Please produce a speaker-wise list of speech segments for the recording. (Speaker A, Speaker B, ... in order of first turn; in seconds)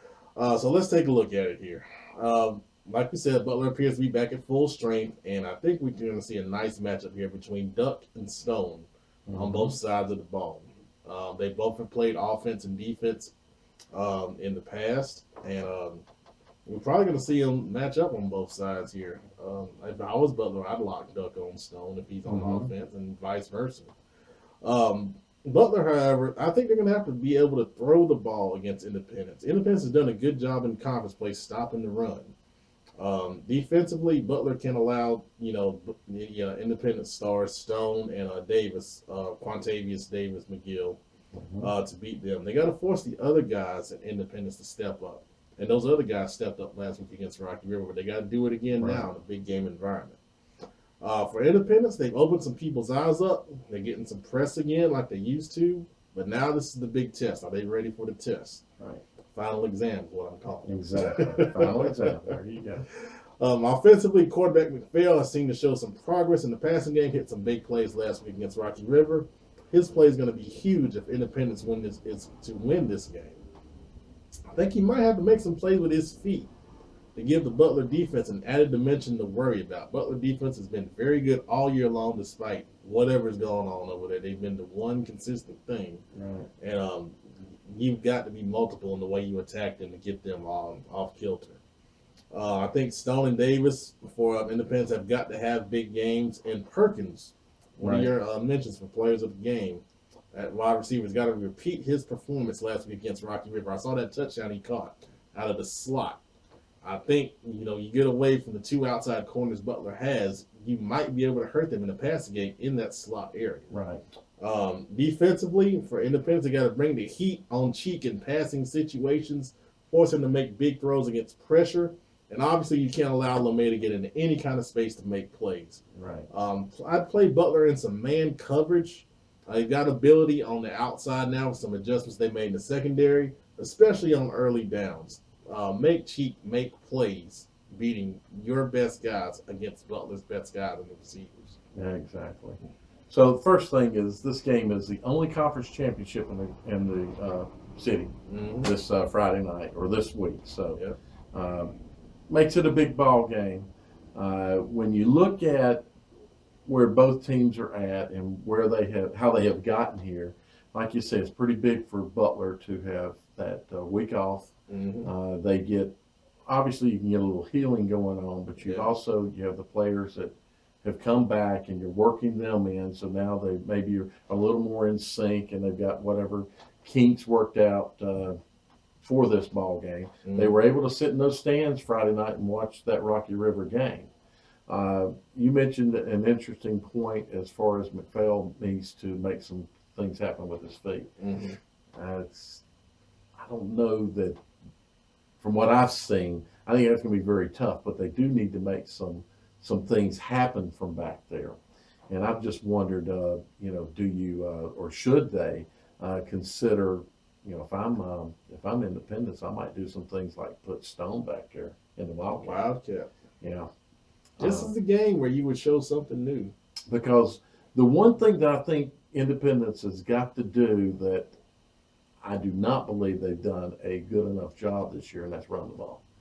Speaker A: 0.3-13.3, 13.9-16.0, 16.6-23.9, 24.6-32.3, 33.0-41.0, 41.6-50.2, 51.0-58.6, 59.3-62.1, 62.9-73.4, 74.5-76.5, 77.1-86.0, 86.6-91.6, 92.3-106.2, 106.8-113.7, 114.4-141.6, 148.3-148.7, 164.7-165.1, 168.6-168.9, 180.2-180.6, 191.2-191.6, 212.4-213.1, 214.4-216.5
Speaker B: 9.3-9.8, 22.2-22.7, 41.3-41.7, 48.8-49.0, 60.6-62.9, 86.1-86.5, 97.8-98.1, 113.7-114.0, 125.9-126.3, 141.7-150.8, 151.3-151.7, 152.3-155.8, 156.7-164.5, 165.0-165.9, 166.4-178.4, 179.0-184.1, 184.7-191.1, 191.9-192.6, 193.3-194.4, 195.4-201.6, 202.1-212.7, 213.4-213.7, 214.4-214.7, 216.9-221.4, 222.2-226.0